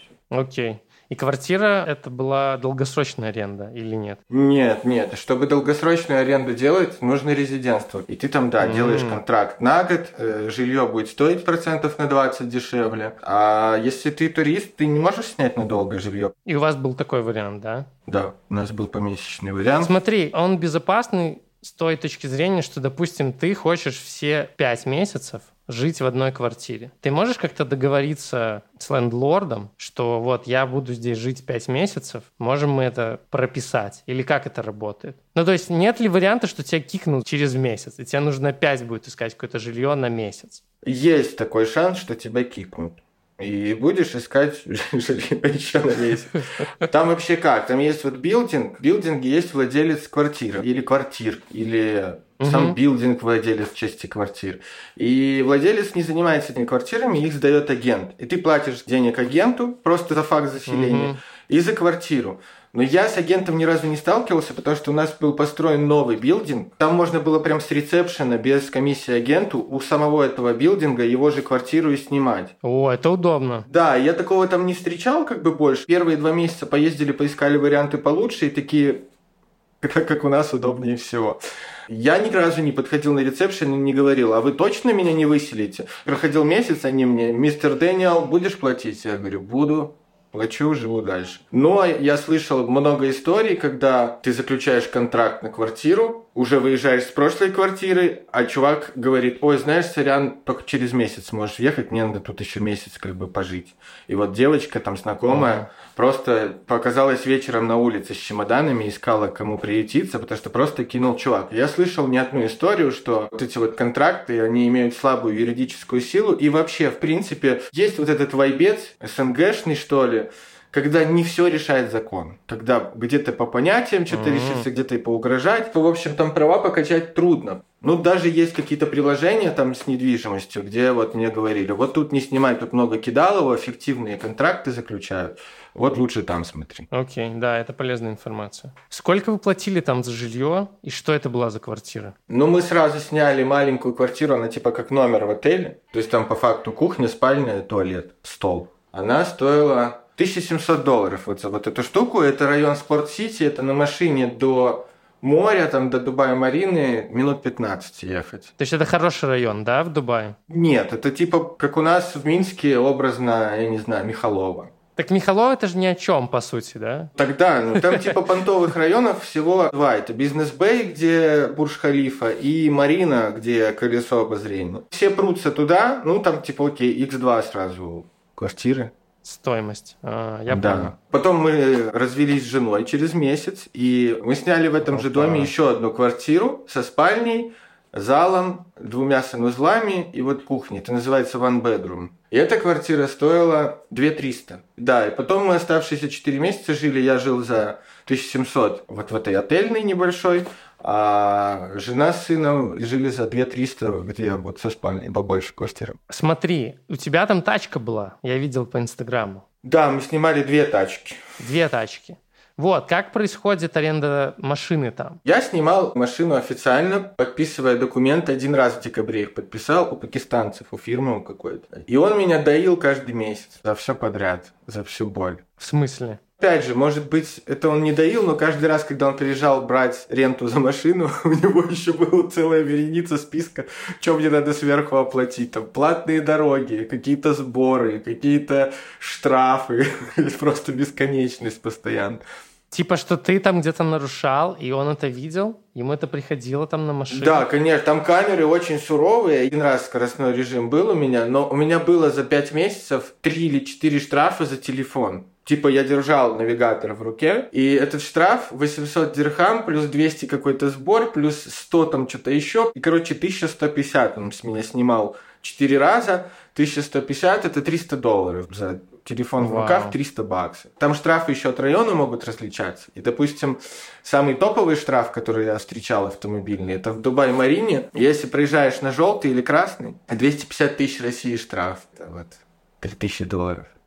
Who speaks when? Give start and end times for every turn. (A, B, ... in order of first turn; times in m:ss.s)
0:00.3-0:04.2 A
0:04.3-0:16.3 B
0:08.6-0:09.2 A
0:16.4-0:17.9 A
0:18.1-0:19.9 B
0:19.8-0:40.6 A
0:40.8-1:12.5 B
0:46.3-0:46.7 A
0:52.4-0:52.8 A
1:00.7-1:01.2 A
1:12.6-1:13.7 A
1:13.7-1:19.0 B
1:19.8-2:16.9 B
1:45.3-1:45.6 A
2:04.1-2:04.6 A
2:16.9-2:22.1 A
2:22.3-2:38.5 B
2:38.6-2:40.4 A
2:40.5-2:44.7 B
2:45.0-2:47.1 A
2:47.1-2:58.9 B
2:47.8-2:48.1 A
2:59.2-3:00.9 A
3:00.5-3:26.0 B
3:04.8-3:05.5 A
3:26.1-3:29.4 A
3:29.6-3:31.2 B
3:31.4-3:35.2 A
3:35.2-3:45.4 B
3:45.6-3:46.2 A
3:46.4-4:02.2 B
4:02.7-4:07.5 A
4:07.1-4:43.7 B
4:29.4-4:30.0 A